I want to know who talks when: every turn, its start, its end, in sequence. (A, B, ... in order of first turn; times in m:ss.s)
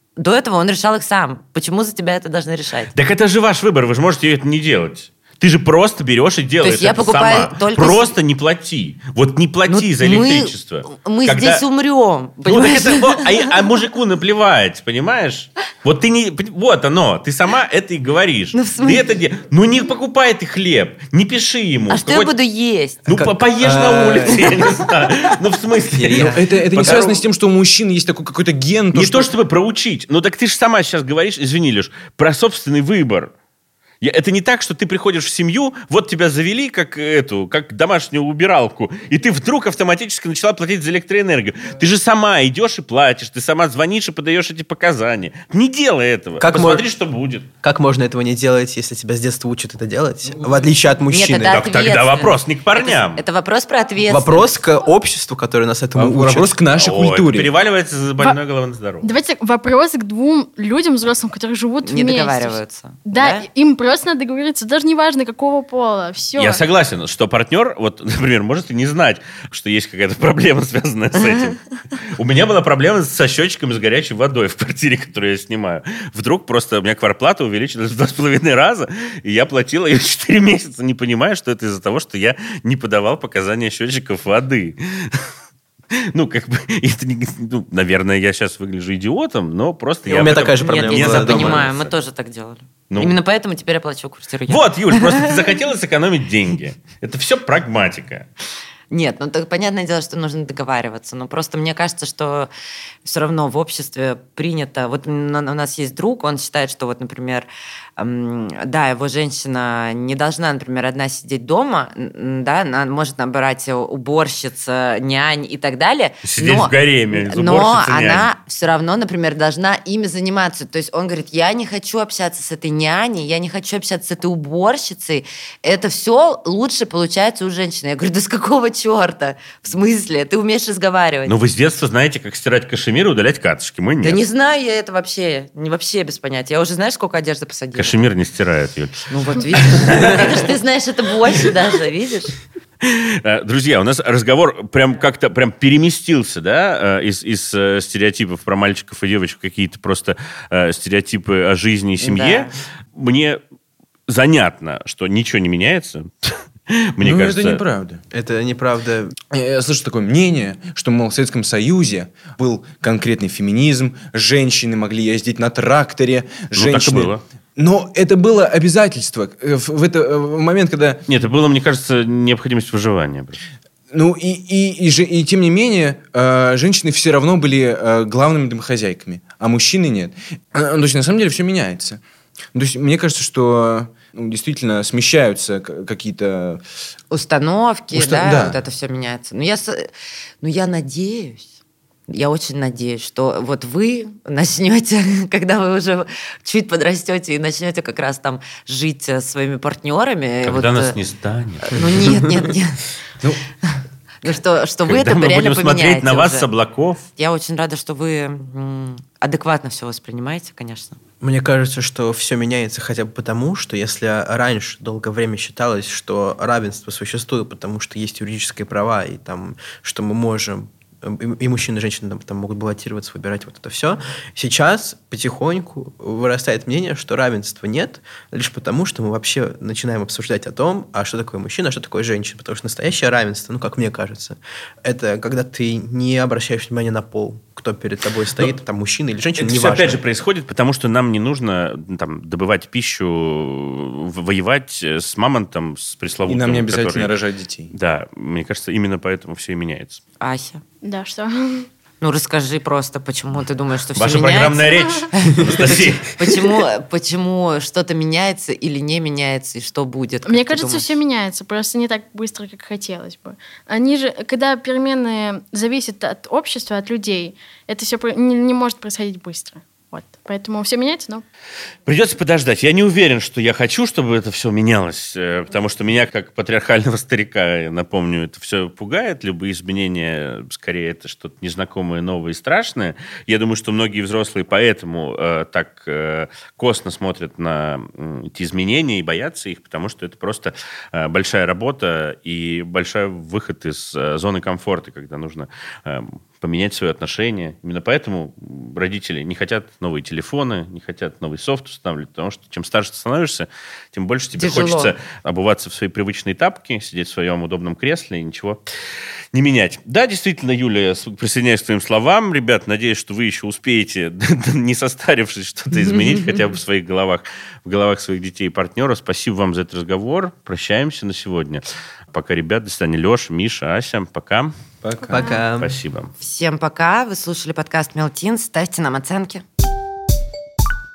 0:00.2-0:02.9 A
0:02.9-0:11.6 B
0:06.6-0:08.1 A
0:09.7-0:13.5 A
0:12.5-0:22.3 B
0:18.5-0:19.0 A
0:21.9-0:23.1 A
0:23.1-0:27.1 B
0:23.1-0:24.9 C
0:25.9-0:27.2 C
0:26.2-0:29.3 D
0:28.9-0:33.3 B
0:34.0-0:47.5 B
0:46.4-0:46.8 C
0:47.6-0:51.6 C
0:51.1-0:54.5 A
0:51.5-0:53.2 B
0:54.1-0:56.6 C
0:56.0-0:57.5 D
0:56.7-0:59.1 B
0:59.0-1:06.6 E
1:01.8-1:03.5 A
1:06.4-1:25.3 B
1:25.9-1:31.9 B
1:30.0-1:31.6 C
1:30.6-1:35.4 A
1:32.9-1:33.2 B
1:34.5-1:38.3 B
1:38.9-1:42.5 A
1:43.0-2:11.3 A
1:56.2-1:58.3 B
2:11.3-2:14.2 B
2:14.0-2:18.0 A
2:17.8-2:20.5 B
2:19.1-2:22.3 A
2:22.8-2:33.4 B
2:32.0-2:32.5 A
2:34.1-2:37.6 B
2:37.0-2:38.0 D
2:38.1-2:39.2 C
2:39.3-2:51.0 D
2:46.6-2:47.2 B
2:51.1-2:53.4 B
2:53.9-3:02.0 D
3:02.5-3:06.6 D
3:07.1-3:09.9 A
3:07.9-3:08.6 D
3:10.4-3:11.5 A
3:12.1-3:21.0 A
3:20.4-3:22.5 B
3:21.6-3:22.8 A
3:24.2-3:26.5 A
3:24.9-3:27.0 B
3:27.2-3:31.0 A
3:31.2-4:00.0 C
3:59.4-4:07.2 B
4:06.3-4:07.7 D
4:07.7-4:10.0 B
4:10.2-4:10.6 A
4:10.8-4:11.7 E
4:12.0-4:20.9 A
4:14.0-4:16.3 B
4:20.3-4:31.2 E
4:31.9-5:08.6 B
5:04.3-5:05.0 A
5:09.3-5:24.5 B
5:24.8-5:25.4 D
5:25.1-5:25.7 C
5:25.6-5:26.1 B
5:26.2-5:29.4 A